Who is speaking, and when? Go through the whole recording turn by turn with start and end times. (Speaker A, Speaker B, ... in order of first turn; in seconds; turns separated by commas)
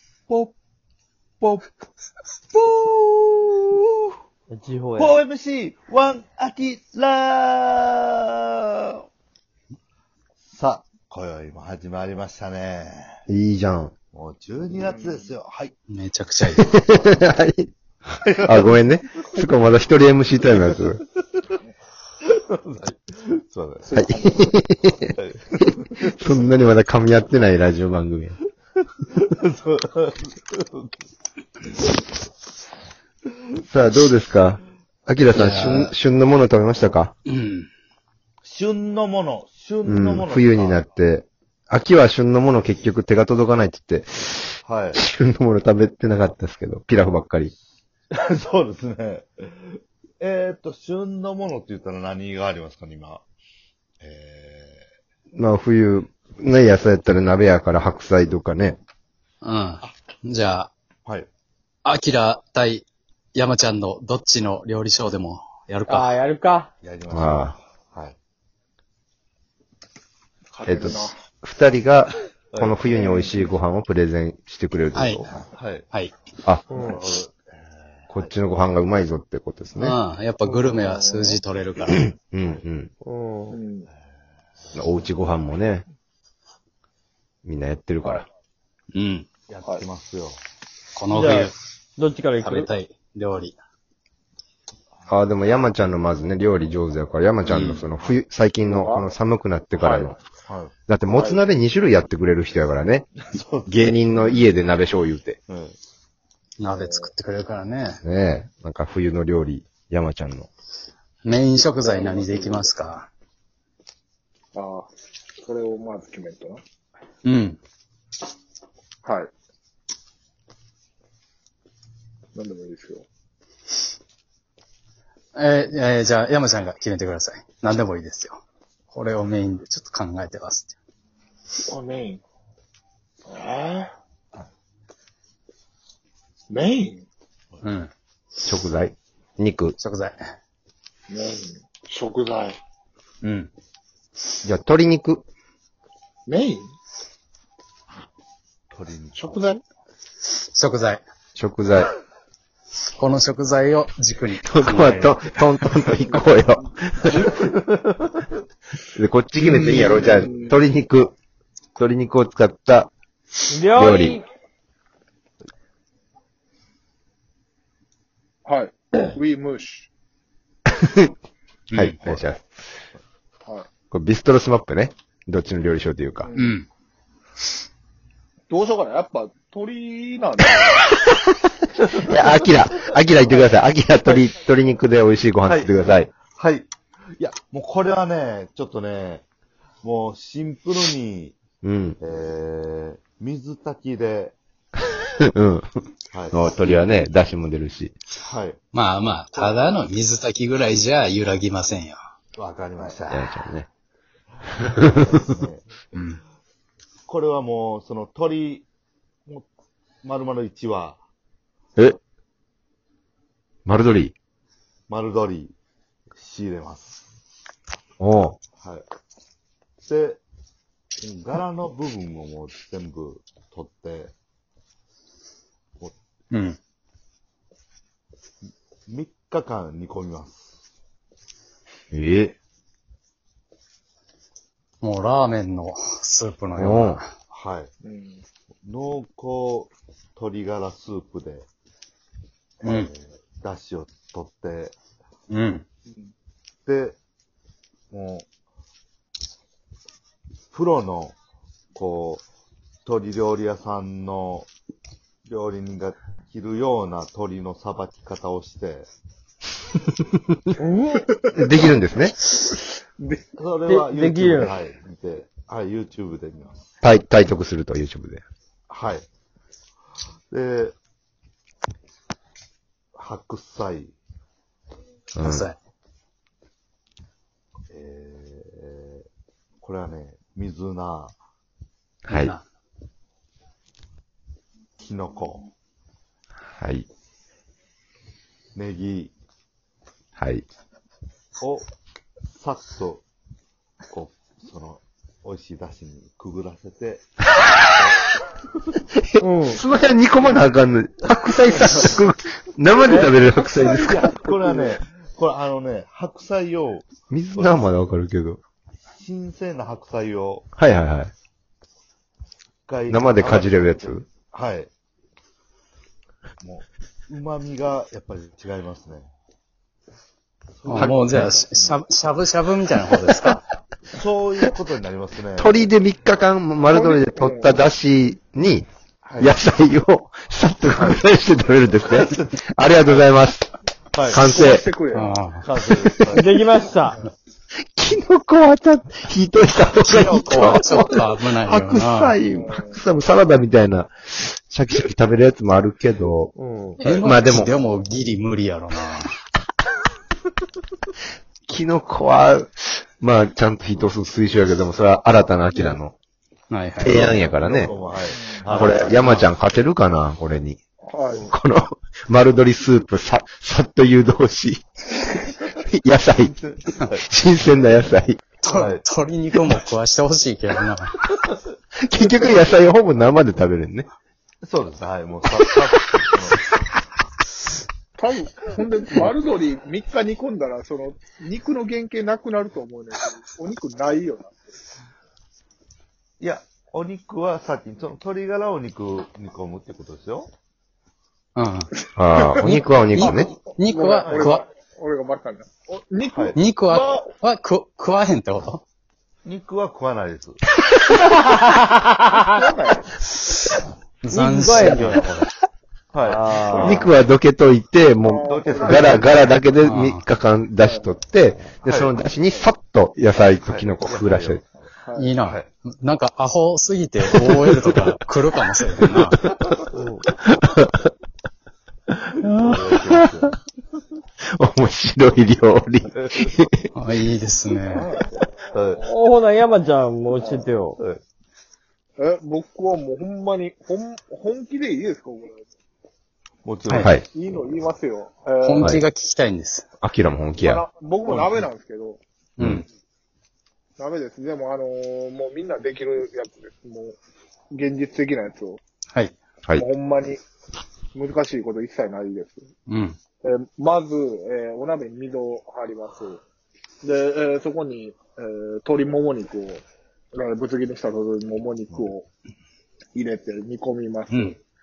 Speaker A: 0.3-0.5, Speaker A: 1.4-1.7, Speaker A: 2.5-4.1, Speaker B: 4.5-5.2, Speaker A: 5.0-9.1, Speaker A: 10.4-13.2, Speaker C: 13.3-13.9, Speaker A: 14.1-15.7, Speaker D: 14.8-15.3, Speaker E: 15.9-16.7, Speaker C: 16.6-17.7, Speaker A: 18.2-18.8, Speaker C: 18.4-21.0, Speaker A: 22.2-24.1, Speaker C: 23.9-28.4, Speaker D: 24.1-24.4, Speaker A: 25.2-26.1, Speaker A: 29.0-30.9, Speaker C: 33.6-37.1, Speaker E: 35.3-35.9, Speaker E: 37.3-37.7, Speaker A: 38.4-40.8, Speaker C: 39.9-47.5, Speaker A: 44.6-45.0, Speaker A: 48.1-53.2, Speaker A: 54.0-54.9, Speaker C: 55.4-58.8, Speaker E: 59.4-60.7, Speaker E: 61.9-66.1, Speaker B: 65.9-66.7, Speaker A: 66.8-68.2, Speaker C: 67.1-67.6, Speaker D: 70.5-71.2, Speaker C: 70.7-75.3, Speaker A: 72.5-73.1, Speaker E: 75.0-75.3, Speaker A: 75.5-75.8, Speaker B: 76.7-77.0, Speaker A: 76.7-78.3, Speaker C: 78.1-80.0, Speaker E: 79.8-82.1, Speaker C: 82.2-82.9, Speaker B: 83.0-83.6, Speaker D: 83.5-83.9, Speaker C: 84.7-85.9, Speaker C: 87.5-88.3, Speaker E: 88.9-89.3, Speaker A: 89.5-90.4, Speaker E: 91.0-91.6, Speaker B: 91.1-92.7, Speaker E: 92.4-93.6, Speaker C: 95.1-100.2, Speaker E: 97.5-97.8, Speaker A: 97.5-98.2, Speaker D: 98.7-99.1, Speaker D: 99.8-100.2, Speaker A: 100.5-100.7, Speaker C: 100.9-103.1, Speaker D: 101.1-101.4, Speaker A: 103.3-104.4, Speaker C: 103.7-105.4, Speaker A: 105.5-105.8, Speaker E: 106.6-108.0, Speaker D: 106.8-107.1, Speaker C: 108.0-110.5, Speaker E: 111.2-113.1, Speaker D: 111.8-112.7, Speaker D: 114.5-114.9, Speaker D: 115.4-116.6, Speaker E: 117.2-117.6, Speaker D: 119.0-119.3, Speaker D: 122.3-123.1, Speaker E: 125.3-130.8, Speaker D: 131.7-132.2, Speaker D: 133.3-133.9, Speaker D: 136.5-137.1, Speaker E: 137.6-137.9, Speaker C: 138.5-139.8, Speaker E: 139.8-140.2, Speaker D: 141.1-142.6, Speaker E: 143.2-143.5, Speaker C: 144.4-145.2, Speaker D: 146.3-146.7, Speaker A: 148.7-149.4, Speaker D: 149.2-149.6, Speaker E: 150.4-151.0, Speaker C: 151.3-151.9, Speaker E: 153.0-155.2, Speaker C: 154.4-157.5, Speaker D: 157.1-157.3, Speaker C: 158.9-161.2, Speaker D: 159.5-160.5, Speaker C: 161.8-162.9, Speaker B: 163.5-164.2, Speaker C: 163.7-164.2, Speaker D: 168.4-169.9, Speaker C: 170.8-171.1, Speaker E: 171.7-172.0, Speaker C: 171.7-172.4, Speaker C: 173.9-176.3, Speaker D: 176.2-176.6, Speaker E: 176.4-176.7, Speaker D: 178.5-180.8, Speaker C: 181.9-186.1, Speaker A: 185.5-189.2, Speaker A: 189.8-191.4, Speaker C: 191.6-192.0, Speaker A: 192.0-194.4, Speaker C: 195.3-195.7, Speaker A: 196.1-196.4, Speaker C: 196.3-198.0, Speaker A: 198.2-198.6, Speaker E: 198.7-202.0, Speaker A: 202.4-203.5, Speaker C: 203.1-203.7, Speaker C: 204.6-205.2, Speaker A: 204.8-205.7, Speaker E: 205.9-206.2, Speaker A: 207.1-208.7, Speaker A: 210.0-211.0, Speaker C: 213.7-214.1, Speaker A: 214.9-215.5, Speaker A: 216.1-217.0, Speaker C: 218.0-218.4, Speaker A: 219.8-220.2, Speaker A: 221.0-224.1, Speaker E: 226.3-226.6, Speaker A: 228.9-230.6, Speaker C: 231.9-232.3, Speaker E: 234.8-237.1, Speaker C: 236.6-237.0, Speaker A: 237.3-237.7, Speaker D: 237.8-238.2, Speaker A: 238.7-241.5, Speaker A: 242.6-244.8, Speaker E: 242.6-242.9, Speaker E: 245.3-245.6, Speaker A: 246.7-247.0, Speaker A: 247.9-248.3, Speaker A: 250.5-251.2, Speaker A: 251.7-252.2, Speaker A: 252.8-254.5, Speaker A: 255.3-258.9, Speaker B: 260.6-261.1, Speaker D: 260.9-261.7, Speaker C: 261.3-262.1, Speaker D: 262.3-263.2, Speaker A: 263.4-266.7, Speaker B: 263.6-264.6, Speaker C: 266.8-268.2, Speaker A: 268.7-269.1, Speaker A: 270.3-270.8, Speaker A: 272.9-273.9, Speaker C: 275.2-275.5, Speaker E: 275.2-275.6, Speaker A: 277.7-279.1, Speaker A: 279.6-281.1, Speaker C: 282.1-282.4, Speaker E: 282.1-282.4, Speaker A: 284.8-285.5, Speaker C: 286.6-286.9, Speaker A: 288.6-289.1, Speaker C: 290.2-290.5, Speaker A: 291.4-291.7, Speaker A: 292.3-293.0, Speaker A: 293.9-297.1, Speaker A: 297.7-298.0, Speaker B: 299.2-299.6, Speaker C: 299.2-304.1, Speaker B: 302.8-304.7, Speaker A: 303.8-307.6, Speaker C: 307.1-308.4, Speaker A: 309.0-310.5, Speaker C: 310.6-311.1, Speaker A: 312.7-314.7, Speaker C: 312.9-314.1, Speaker A: 316.4-319.1, Speaker A: 320.6-321.8, Speaker E: 320.6-323.4, Speaker C: 320.8-321.4, Speaker A: 323.9-325.7, Speaker C: 325.4-328.7, Speaker D: 326.7-327.6, Speaker A: 329.0-329.4, Speaker C: 329.2-333.5, Speaker A: 331.9-332.3, Speaker A: 333.9-334.2, Speaker C: 334.1-334.7, Speaker D: 334.1-335.1, Speaker E: 334.9-335.4, Speaker A: 335.4-336.4, Speaker B: 336.1-337.0, Speaker C: 337.8-347.5, Speaker E: 339.8-342.2, Speaker D: 342.2-342.8, Speaker B: 346.4-346.8, Speaker E: 346.8-349.1, Speaker C: 351.5-355.9, Speaker E: 356.5-357.2, Speaker C: 356.8-357.7, Speaker A: 357.2-358.9, Speaker D: 358.1-358.5, Speaker E: 358.5-359.3, Speaker C: 358.5-360.6, Speaker D: 360.8-361.3, Speaker C: 361.1-364.9, Speaker C: 365.4-366.3, Speaker A: 366.2-367.1, Speaker C: 367.1-368.3, Speaker E: 368.4-371.0, Speaker A: 368.5-368.8, Speaker C: 371.8-373.9, Speaker A: 374.4-376.4, Speaker D: 378.0-384.3, Speaker A: 386.2-390.3, Speaker E: 391.4-391.7, Speaker C: 392.0-393.3, Speaker E: 392.4-394.4, Speaker D: 393.0-397.1, Speaker A: 394.0-394.4, Speaker A: 396.1-396.4, Speaker E: 396.4-398.6, Speaker A: 399.2-400.4, Speaker B: 401.8-402.4, Speaker D: 402.2-402.9, Speaker E: 404.0-405.3, Speaker B: 404.1-405.0, Speaker A: 405.9-406.8, Speaker B: 406.0-406.9, Speaker C: 406.5-414.4, Speaker D: 408.0-409.0, Speaker A: 408.2-409.1, Speaker E: 409.6-410.0, Speaker D: 410.6-410.9, Speaker A: 411.6-411.9, Speaker A: 413.5-414.5, Speaker D: 414.8-415.1, Speaker E: 415.0-419.2, Speaker A: 415.2-415.5, Speaker C: 418.9-419.5, Speaker B: 419.7-420.1, Speaker C: 420.2-420.9, Speaker A: 422.3-423.4, Speaker C: 422.7-423.3, Speaker C: 424.4-426.7, Speaker E: 426.8-427.9, Speaker D: 427.7-428.3, Speaker A: 428.5-428.9, Speaker B: 428.8-430.8, Speaker D: 430.1-430.5, Speaker D: 432.0-435.4, Speaker A: 436.4-437.0, Speaker E: 436.7-436.9, Speaker C: 436.7-437.1, Speaker D: 437.1-438.8, Speaker E: 438.4-439.7, Speaker C: 439.8-440.6, Speaker D: 440.4-442.0, Speaker A: 441.1-441.4, Speaker E: 442.4-442.6, Speaker D: 443.8-447.0, Speaker D: 447.5-448.6, Speaker D: 449.6-450.2, Speaker D: 450.9-452.4, Speaker E: 452.7-453.0, Speaker D: 453.2-456.2, Speaker D: 456.8-459.6, Speaker D: 460.1-462.1, Speaker D: 462.9-464.4